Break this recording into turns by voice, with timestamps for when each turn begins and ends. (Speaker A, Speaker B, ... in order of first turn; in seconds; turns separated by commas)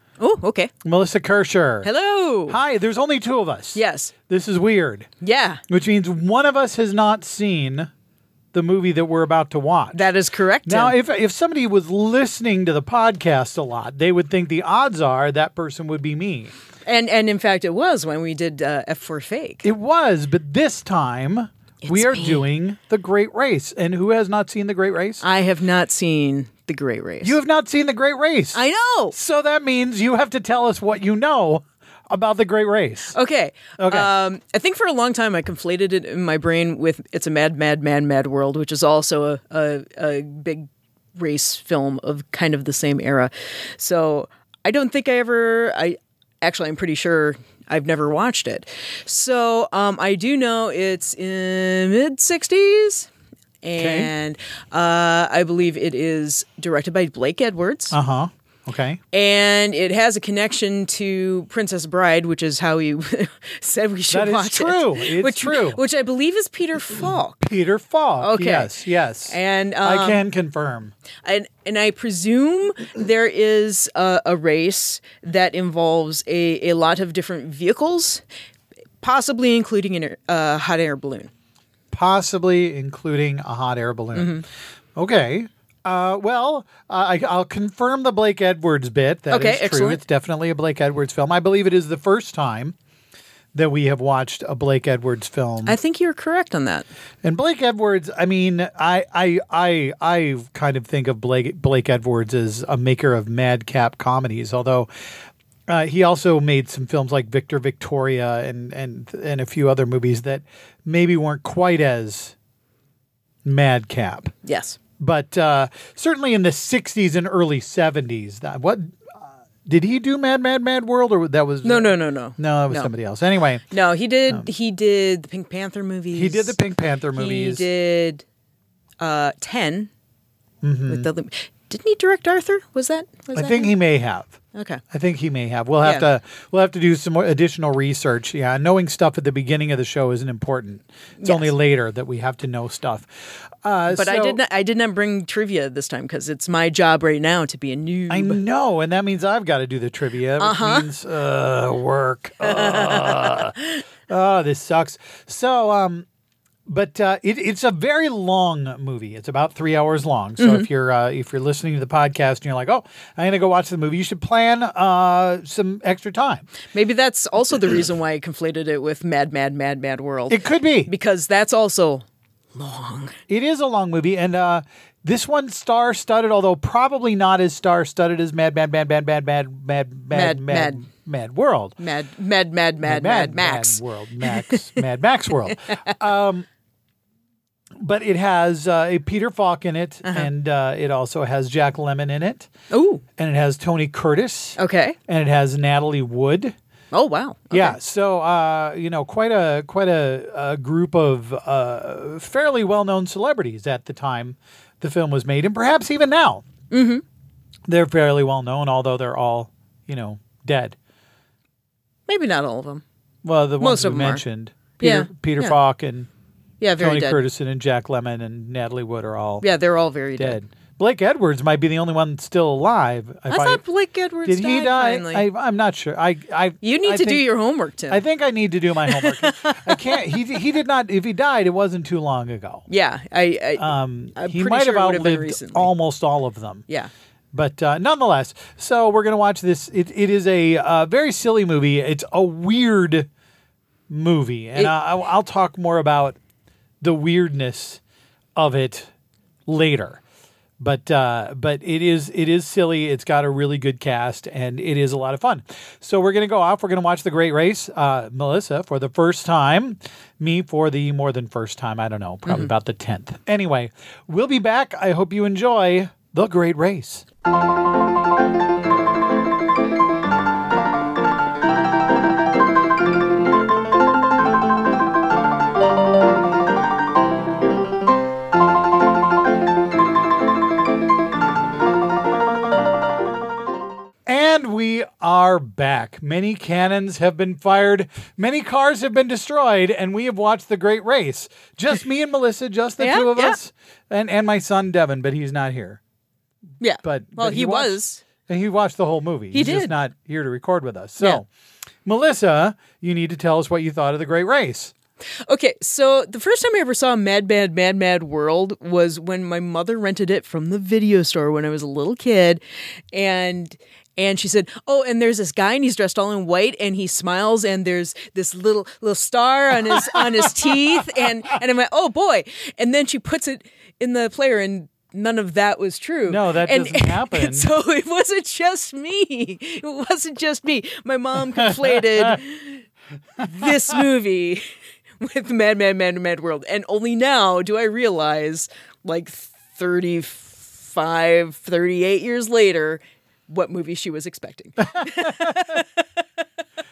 Speaker A: 0.2-0.7, Speaker B: 0.8-1.9, Speaker A: 1.8-2.6, Speaker B: 2.5-5.1, Speaker A: 3.7-4.1, Speaker A: 5.2-5.6, Speaker B: 5.7-7.9, Speaker B: 8.5-10.1, Speaker A: 9.9-10.9, Speaker B: 10.7-16.5, Speaker A: 16.9-19.6, Speaker B: 19.6-25.2, Speaker A: 21.8-22.4, Speaker A: 25.2-27.4, Speaker B: 27.2-28.6, Speaker A: 28.5-29.1, Speaker B: 29.1-33.1, Speaker A: 33.1-53.1, Speaker B: 33.8-34.1, Speaker A: 53.6-58.0, Speaker B: 53.8-54.1, Speaker B: 57.9-59.0, Speaker A: 59.1-67.4, Speaker B: 64.1-65.8, Speaker B: 67.4-70.9, Speaker A: 68.2-68.7, Speaker A: 69.2-70.2, Speaker A: 71.2-78.2, Speaker A: 79.0-81.3, Speaker B: 81.9-84.3, Speaker A: 84.1-84.4, Speaker B: 85.0-92.8, Speaker A: 89.3-90.0, Speaker B: 93.5-95.8, Speaker A: 95.6-96.9, Speaker B: 97.2-104.9, Speaker B: 105.7-112.3, Speaker B: 113.4-114.3, Speaker A: 114.4-114.8, Speaker B: 115.0-123.6, Speaker A: 121.6-122.9, Speaker A: 123.7-126.6, Speaker B: 126.1-127.7, Speaker A: 127.1-128.2, Speaker A: 129.0-129.9, Speaker B: 130.6-131.1, Speaker A: 130.9-133.7, Speaker B: 133.3-134.4, Speaker A: 134.5-134.8, Speaker B: 134.9-144.4, Speaker A: 135.8-136.1, Speaker A: 141.2-141.5, Speaker A: 143.9-148.4, Speaker B: 148.1-153.5, Speaker A: 150.4-150.9, Speaker A: 152.4-153.8, Speaker B: 154.1-156.1, Speaker B: 156.7-166.5, Speaker A: 160.4-160.7, Speaker A: 166.7-173.2, Speaker B: 170.3-170.9, Speaker B: 173.3-181.7, Speaker A: 180.1-180.8, Speaker A: 181.8-184.8, Speaker B: 182.8-186.5, Speaker A: 185.4-185.9, Speaker B: 187.8-192.5, Speaker A: 192.7-193.0, Speaker B: 193.2-196.5, Speaker A: 194.6-195.0, Speaker A: 196.9-197.8, Speaker B: 197.5-206.4, Speaker A: 206.7-207.0, Speaker B: 207.7-210.8, Speaker A: 212.1-212.8, Speaker B: 213.2-216.1, Speaker A: 213.6-214.2, Speaker A: 214.8-215.6, Speaker A: 216.6-217.2, Speaker B: 216.8-219.4, Speaker A: 219.4-220.4, Speaker B: 220.2-223.6, Speaker A: 223.3-225.2, Speaker B: 224.2-227.2, Speaker A: 226.6-228.0, Speaker B: 227.9-232.6, Speaker A: 228.8-230.2, Speaker A: 232.7-235.7, Speaker B: 233.6-236.6, Speaker B: 237.3-243.1, Speaker B: 243.9-246.2, Speaker B: 246.8-247.8, Speaker B: 248.3-248.9, Speaker B: 249.4-250.0, Speaker B: 250.6-267.0, Speaker A: 262.2-262.5, Speaker B: 284.1-295.8, Speaker A: 292.8-293.4, Speaker A: 296.6-298.0, Speaker B: 296.8-301.3, Speaker A: 299.3-299.7, Speaker B: 301.8-304.7, Speaker A: 305.2-312.4, Speaker A: 312.9-332.6, Speaker B: 319.7-320.5, Speaker B: 326.1-327.5, Speaker B: 331.4-332.1, Speaker A: 333.2-334.4, Speaker A: 335.0-346.2, Speaker B: 344.7-345.5